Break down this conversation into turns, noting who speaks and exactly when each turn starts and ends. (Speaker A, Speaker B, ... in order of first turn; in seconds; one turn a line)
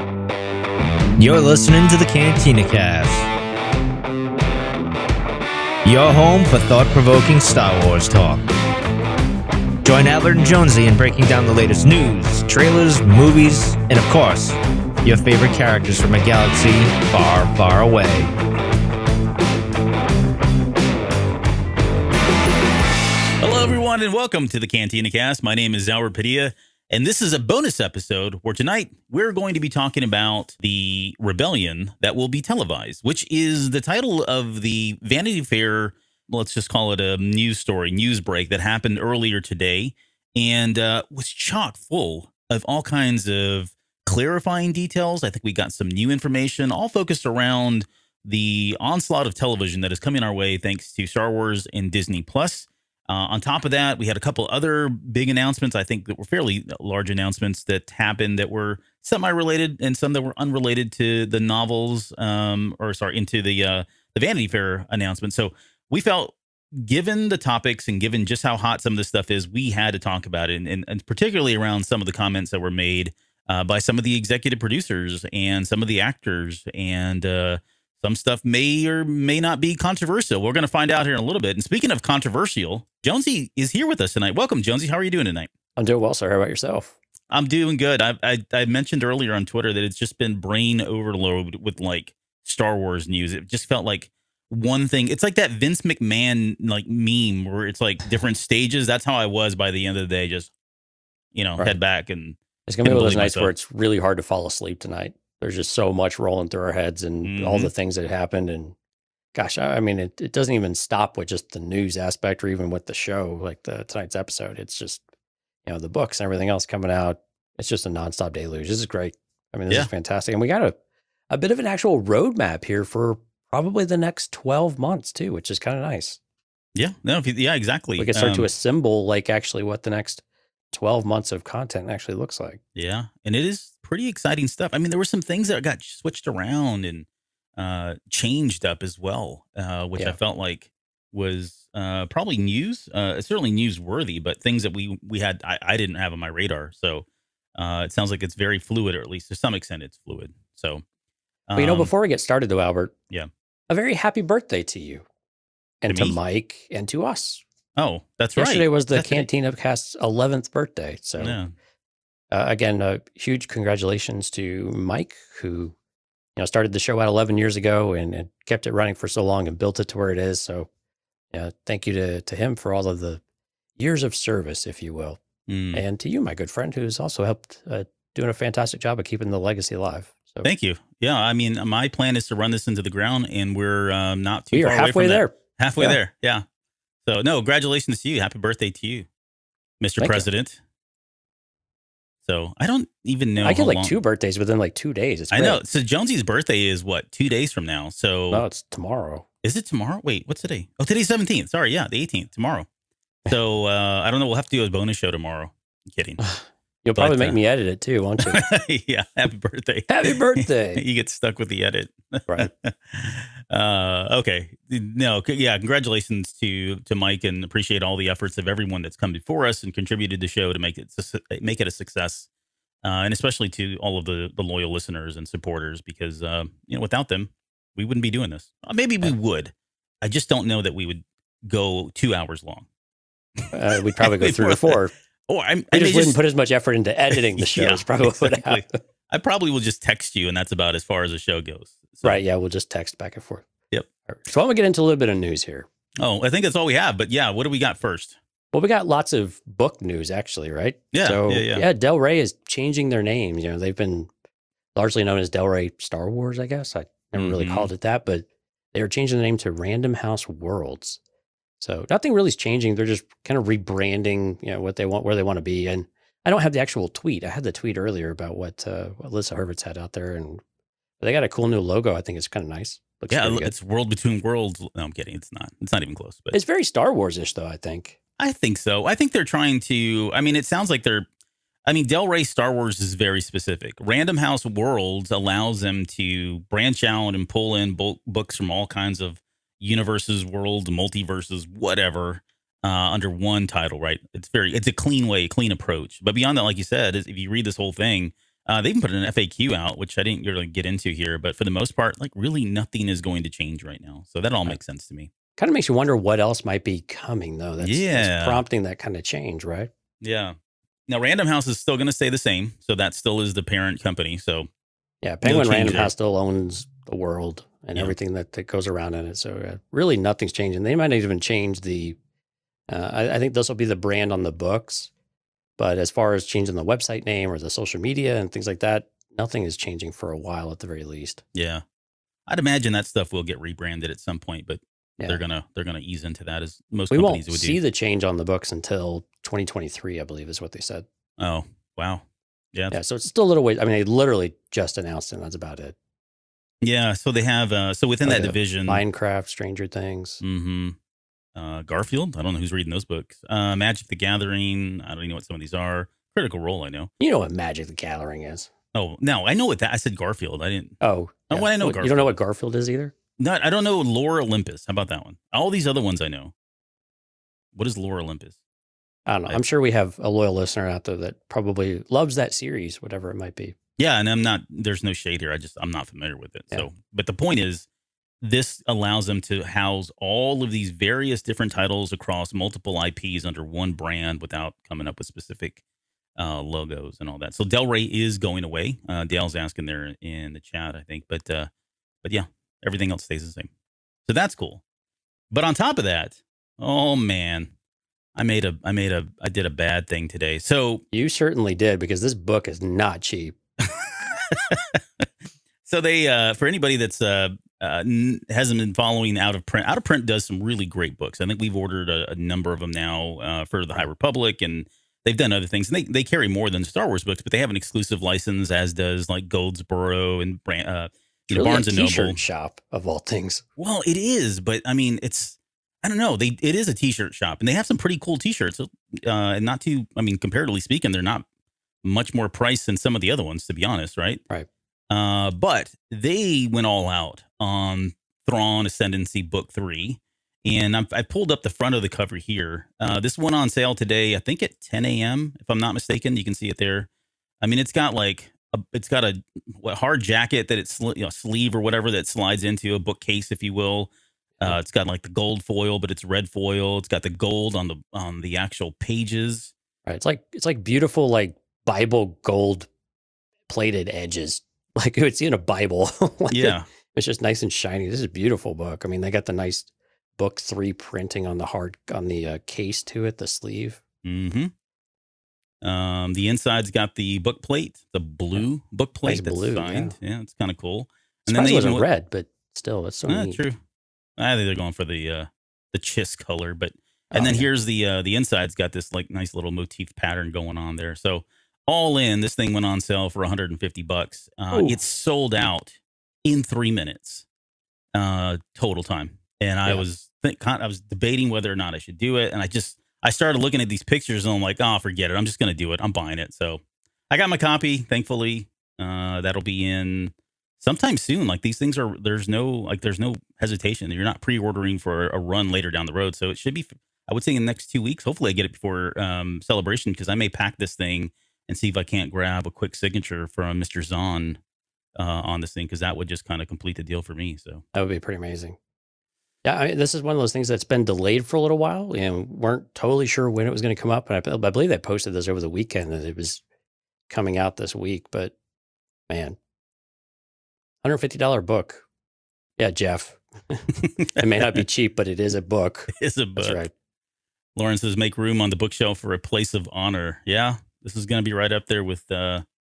Speaker A: 1.2-3.3
Speaker A: 5.8-8.5
Speaker A: 9.8-18.3
Speaker B: 23.4-85.5
Speaker C: 85.8-87.0
Speaker B: 87.3-100.5
Speaker B: 101.3-103.5
Speaker C: 102.7-108.8
Speaker B: 107.2-107.7
Speaker C: 109.3-115.0
Speaker C: 115.7-120.8
Speaker C: 121.3-126.2
Speaker B: 126.8-128.5
Speaker C: 128.0-132.6
Speaker B: 132.8-137.1
Speaker B: 137.6-150.8
Speaker B: 151.5-151.9
Speaker C: 151.6-152.9
Speaker C: 153.7-155.1
Speaker C: 155.8-157.4
Speaker B: 155.9-156.2
Speaker B: 157.8-159.3
Speaker C: 158.4-161.4
Speaker B: 161.2-161.5
Speaker C: 162.3-165.8
Speaker C: 166.4-170.7
Speaker C: 171.3-173.2
Speaker C: 173.8-175.2
Speaker B: 175.5-175.8
Speaker C: 175.7-180.5
Speaker B: 180.4-186.4
Speaker C: 184.5-186.0
Speaker B: 187.0-189.1
Speaker B: 189.8-190.6
Speaker C: 190.0-190.3
Speaker B: 192.2-194.0
Speaker C: 193.4-195.6
Speaker B: 195.3-198.4
Speaker C: 198.3-199.2
Speaker B: 199.4-202.7
Speaker B: 203.3-206.2
Speaker C: 206.2-208.4
Speaker B: 207.0-207.4
Speaker B: 208.3-222.3
Speaker C: 209.9-210.8
Speaker B: 222.8-232.7
Speaker C: 233.5-234.9
Speaker B: 234.0-234.8
Speaker B: 235.3-236.2
Speaker C: 235.7-238.8
Speaker B: 237.1-242.2
Speaker C: 242.0-243.5
Speaker C: 244.1-245.7
Speaker B: 246.0-248.2
Speaker C: 248.5-254.1
Speaker B: 250.9-251.7
Speaker C: 254.8-261.0
Speaker B: 257.1-257.7
Speaker C: 261.6-270.4
Speaker C: 271.0-273.5
Speaker B: 273.1-276.4
Speaker C: 276.3-278.0
Speaker B: 278.2-281.1
Speaker B: 281.7-305.1
Speaker C: 305.4-309.7
Speaker B: 307.6-308.4
Speaker B: 310.0-310.4
Speaker B: 310.9-314.5
Speaker C: 315.0-322.0
Speaker B: 315.2-315.9
Speaker C: 322.7-324.9
Speaker C: 325.6-331.2
Speaker B: 331.3-331.6
Speaker B: 332.3-337.6
Speaker C: 336.9-340.9
Speaker B: 341.2-342.8
Speaker C: 342.7-345.8
Speaker B: 346.6-348.8
Speaker C: 348.1-350.2
Speaker B: 350.2-350.8
Speaker B: 351.4-356.9
Speaker C: 357.0-358.5
Speaker B: 358.7-360.8
Speaker C: 360.8-362.9
Speaker B: 361.3-362.1
Speaker B: 363.2-366.3
Speaker B: 367.5-368.4
Speaker C: 369.1-373.6
Speaker B: 373.8-377.7
Speaker B: 378.2-385.6
Speaker B: 386.2-391.5
Speaker B: 392.0-393.5
Speaker B: 394.1-394.6
Speaker B: 395.3-397.5
Speaker B: 398.1-400.8
Speaker C: 400.9-403.4
Speaker B: 403.7-405.1
Speaker B: 405.6-422.2
Speaker C: 421.3-423.4
Speaker B: 423.6-431.2
Speaker B: 431.8-434.2
Speaker B: 434.9-446.9
Speaker B: 447.4-453.9
Speaker B: 454.4-459.5
Speaker C: 459.9-462.7
Speaker C: 463.5-473.8
Speaker B: 466.3-466.7
Speaker B: 474.0-474.5
Speaker B: 475.6-481.9
Speaker C: 479.1-480.0
Speaker C: 481.3-483.4
Speaker B: 483.1-483.6
Speaker B: 484.2-497.3
Speaker C: 487.1-487.5
Speaker B: 497.9-524.4
Speaker B: 525.0-527.6
Speaker C: 527.7-528.6
Speaker C: 529.4-536.4
Speaker C: 537.1-538.3
Speaker C: 539.1-539.4
Speaker C: 540.8-541.8
Speaker C: 542.6-546.7
Speaker B: 544.0-544.6
Speaker B: 545.9-546.6
Speaker B: 547.6-552.5